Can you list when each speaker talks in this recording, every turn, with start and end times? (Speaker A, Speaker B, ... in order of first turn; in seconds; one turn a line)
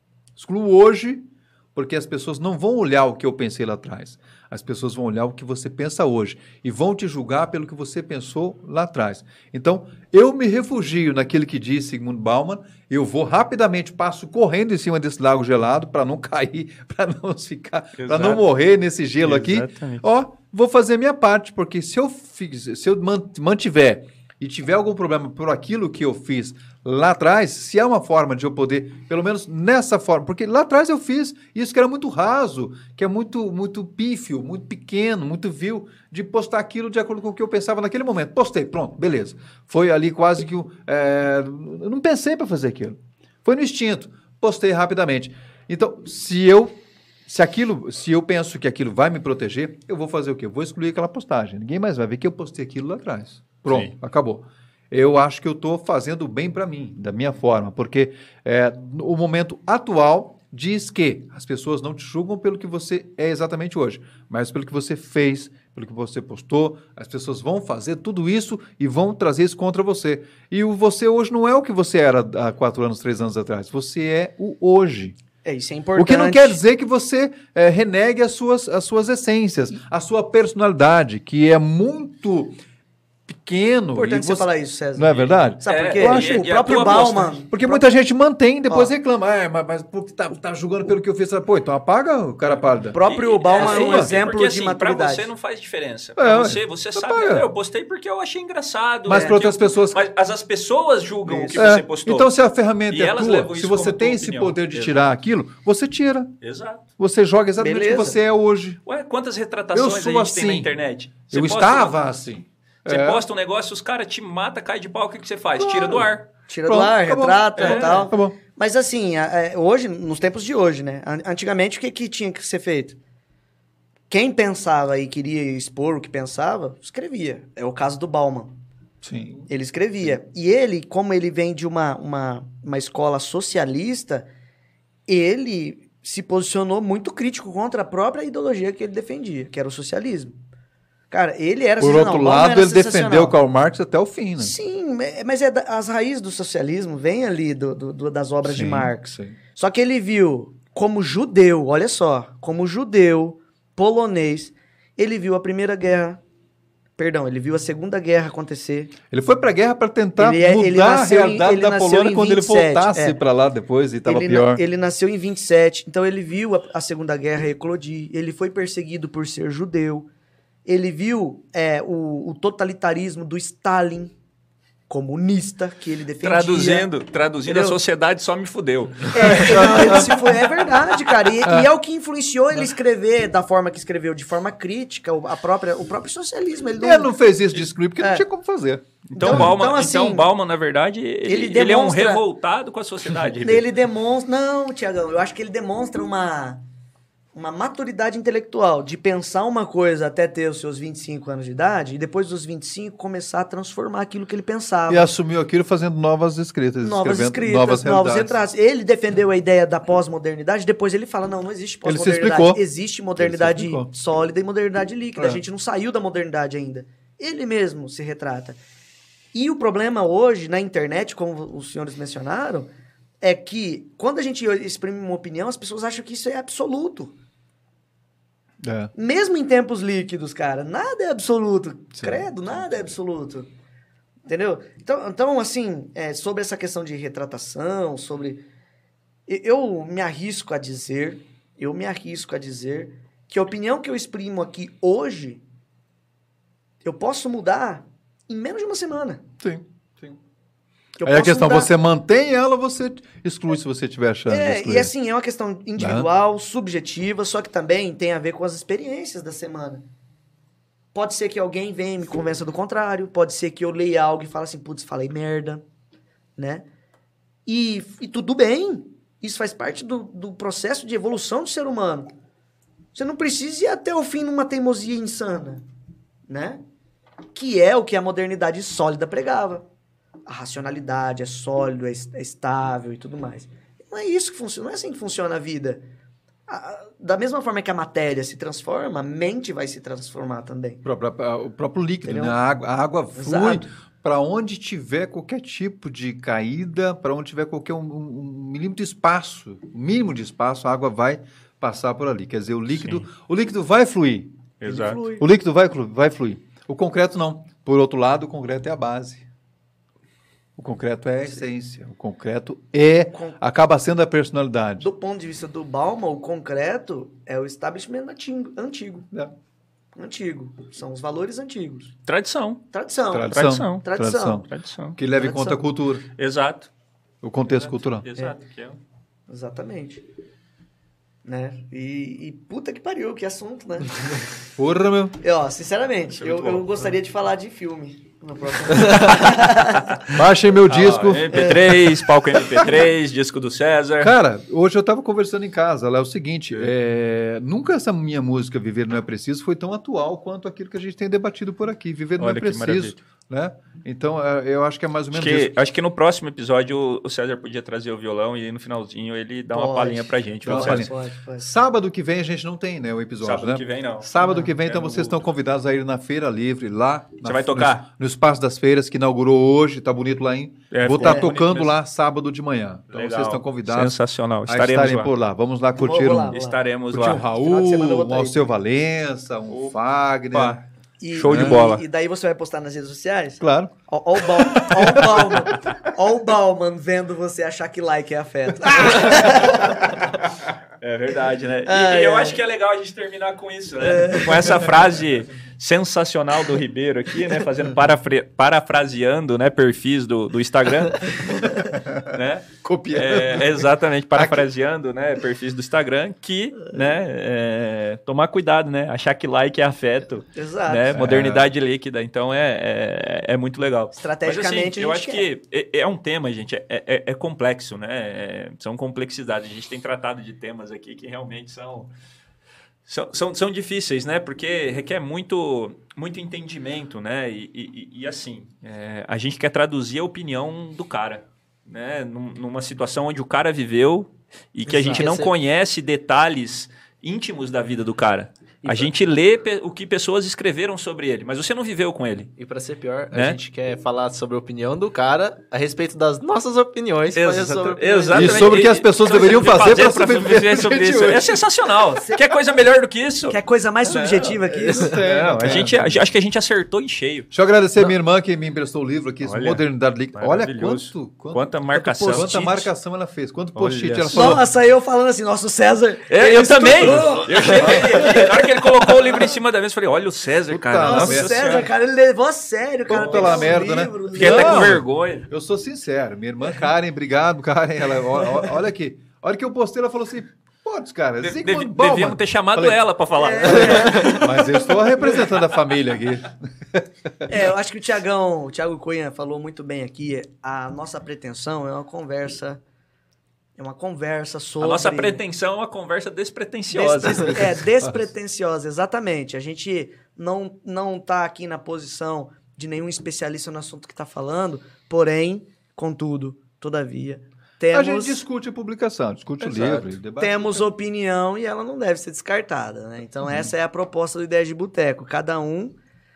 Speaker A: 0.4-75.1
Speaker B: 18.0-18.4
Speaker B: 19.2-20.0
Speaker C: 75.4-76.6
Speaker A: 76.0-82.6
Speaker A: 83.3-93.0
Speaker C: 83.9-87.8
Speaker B: 85.7-87.4
Speaker C: 92.9-95.3
Speaker B: 92.9-102.3
Speaker A: 93.5-94.2
Speaker A: 96.2-97.5
Speaker A: 99.1-100.0
Speaker C: 101.3-101.7
Speaker A: 101.5-106.3
Speaker B: 102.9-105.1
Speaker B: 106.4-106.8
Speaker A: 107.0-108.8
Speaker C: 107.6-108.2
Speaker B: 108.8-111.9
Speaker A: 109.7-110.7
Speaker A: 111.3-113.2
Speaker B: 112.8-116.3
Speaker A: 115.6-116.1
Speaker C: 116.5-123.0
Speaker A: 116.7-118.4
Speaker B: 117.6-118.1
Speaker C: 124.1-128.6
Speaker A: 129.0-129.4
Speaker C: 129.5-134.3
Speaker C: 135.1-140.4
Speaker C: 141.1-143.3
Speaker A: 141.8-144.6
Speaker C: 144.4-156.2
Speaker A: 148.4-149.4
Speaker C: 157.0-158.9
Speaker A: 159.1-164.6
Speaker C: 160.2-163.2
Speaker C: 164.1-170.1
Speaker C: 170.7-174.1
Speaker C: 174.9-176.9
Speaker B: 176.2-180.1
Speaker C: 177.4-177.8
Speaker C: 179.1-187.1
Speaker A: 179.2-180.3
Speaker A: 186.8-189.6
Speaker C: 188.0-188.2
Speaker B: 189.1-193.7
Speaker C: 189.1-190.3
Speaker C: 191.3-192.2
Speaker C: 193.4-196.6
Speaker C: 197.3-205.1
Speaker A: 204.9-208.4
Speaker C: 206.8-218.6
Speaker A: 211.8-212.6
Speaker A: 213.2-213.9
Speaker A: 215.2-215.4
Speaker C: 219.3-222.7
Speaker C: 223.2-227.1
Speaker A: 228.6-228.9
Speaker C: 228.9-233.5
Speaker A: 232.0-232.3
Speaker C: 234.3-238.4
Speaker C: 239.3-245.4
Speaker C: 246.8-249.2
Speaker A: 249.4-250.2
Speaker C: 251.0-251.7
Speaker A: 251.0-254.9
Speaker C: 254.3-259.8
Speaker A: 255.8-256.1
Speaker C: 260.9-265.6
Speaker C: 266.4-266.6
Speaker C: 267.5-272.1
Speaker C: 272.9-275.6
Speaker C: 276.3-276.6
Speaker C: 277.3-279.6
Speaker C: 280.3-285.8
Speaker C: 286.5-290.8
Speaker A: 290.8-304.4
Speaker C: 292.1-292.4
Speaker C: 293.1-293.6
Speaker B: 304.6-305.0
Speaker C: 304.6-305.2
Speaker A: 305.2-309.3
Speaker A: 310.6-314.9
Speaker C: 314.8-319.1
Speaker C: 319.9-321.9
Speaker B: 322.1-322.6
Speaker C: 322.7-324.4
Speaker A: 323.1-326.1
Speaker B: 323.3-323.9
Speaker B: 324.5-325.0
Speaker C: 325.1-325.6
Speaker B: 326.1-326.7
Speaker A: 327.2-328.1
Speaker B: 327.8-328.8
Speaker C: 329.3-330.0
Speaker C: 331.2-334.2
Speaker A: 334.6-335.2
Speaker C: 335.2-339.9
Speaker B: 336.2-336.6
Speaker A: 340.1-342.8
Speaker B: 340.6-344.1
Speaker A: 344.0-355.5
Speaker B: 352.2-353.0
Speaker B: 355.1-360.9
Speaker C: 359.5-361.5
Speaker A: 360.4-373.9
Speaker B: 363.2-365.2
Speaker C: 364.2-364.5
Speaker B: 367.2-367.9
Speaker B: 370.7-371.7
Speaker C: 371.0-371.3
Speaker B: 372.9-375.1
Speaker A: 374.4-376.3
Speaker C: 375.8-376.6
Speaker B: 376.3-377.2
Speaker A: 376.9-380.6
Speaker C: 377.3-378.5
Speaker B: 379.5-379.7
Speaker B: 380.3-381.8
Speaker C: 381.0-389.8
Speaker A: 381.2-381.6
Speaker A: 383.4-383.7
Speaker A: 384.5-385.7
Speaker B: 390.8-421.9
Speaker C: 391.6-392.4
Speaker C: 393.8-394.7
Speaker A: 401.8-402.1
Speaker A: 402.6-404.4
Speaker C: 410.3-411.0
Speaker A: 410.9-411.5
Speaker C: 413.9-415.3
Speaker B: 422.9-442.3
Speaker C: 434.6-435.1
Speaker D: 434.9-435.3
Speaker D: 438.6-438.9
Speaker D: 442.4-448.6
Speaker B: 443.1-443.4
Speaker B: 447.1-454.3
Speaker A: 448.1-451.4
Speaker C: 452.0-452.3
Speaker C: 453.3-455.0
Speaker D: 454.5-455.0
Speaker A: 454.6-456.0
Speaker B: 455.0-457.3
Speaker A: 457.3-461.5
Speaker B: 459.2-459.6
Speaker B: 460.1-462.7
Speaker C: 461.7-462.3
Speaker A: 462.0-464.4
Speaker B: 463.6-464.4
Speaker C: 464.1-469.1
Speaker B: 466.1-471.7
Speaker A: 467.6-467.9
Speaker A: 470.5-471.6
Speaker C: 470.8-474.8
Speaker A: 472.9-482.8
Speaker B: 472.9-473.6
Speaker B: 474.1-475.3
Speaker B: 481.2-484.2
Speaker C: 483.1-484.7
Speaker A: 483.4-487.3
Speaker C: 487.3-492.6
Speaker C: 493.6-495.2
Speaker B: 494.6-497.5
Speaker C: 496.7-508.2
Speaker A: 497.1-498.0
Speaker A: 507.7-510.6
Speaker D: 509.4-509.9
Speaker C: 510.2-515.8